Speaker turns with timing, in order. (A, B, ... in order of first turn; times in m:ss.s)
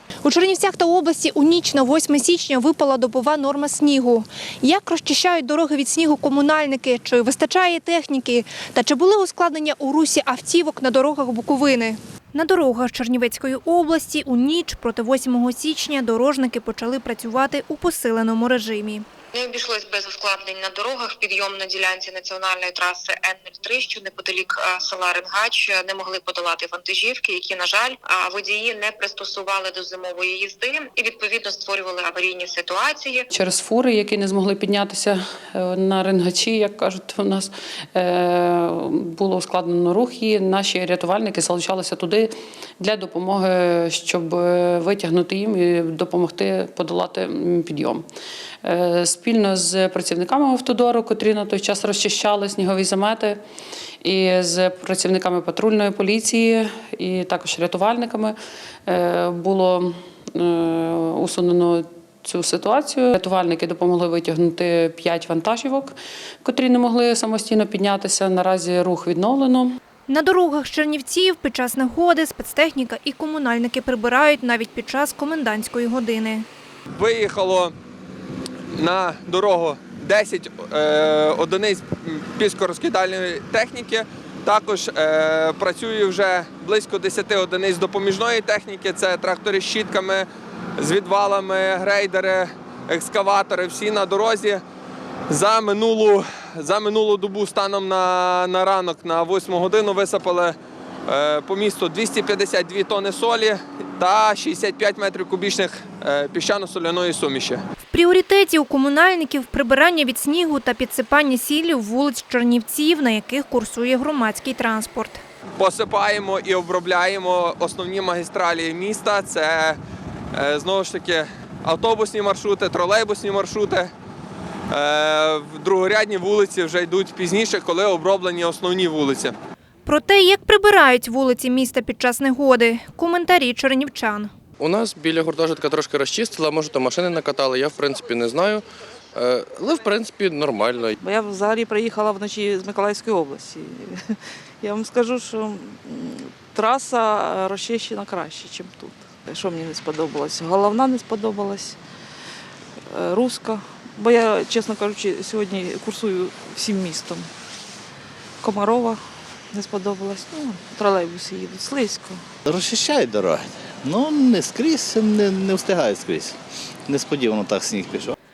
0:00.2-0:19.0 A
0:19.3-0:33.3 B
0:33.3-0:48.0 C
0:48.6-0:53.4 C
0:54.0-1:09.7 C
1:10.1-1:16.4 A
1:17.0-1:17.7 D
1:18.7-1:30.3 D
1:30.8-1:34.6 D
1:35.3-1:40.5 D
1:41.1-1:47.6 D
1:47.9-1:55.2 A
1:55.6-1:59.8 D
2:00.3-2:03.9 D
2:04.7-2:09.3 D
2:09.8-2:14.3 A
2:14.6-2:18.6 E
2:19.2-2:21.0 E
2:21.0-2:31.8 F
2:32.9-2:37.3 F
2:38.4-2:42.2 F
2:42.4-2:46.4 G
2:46.9-2:48.2 G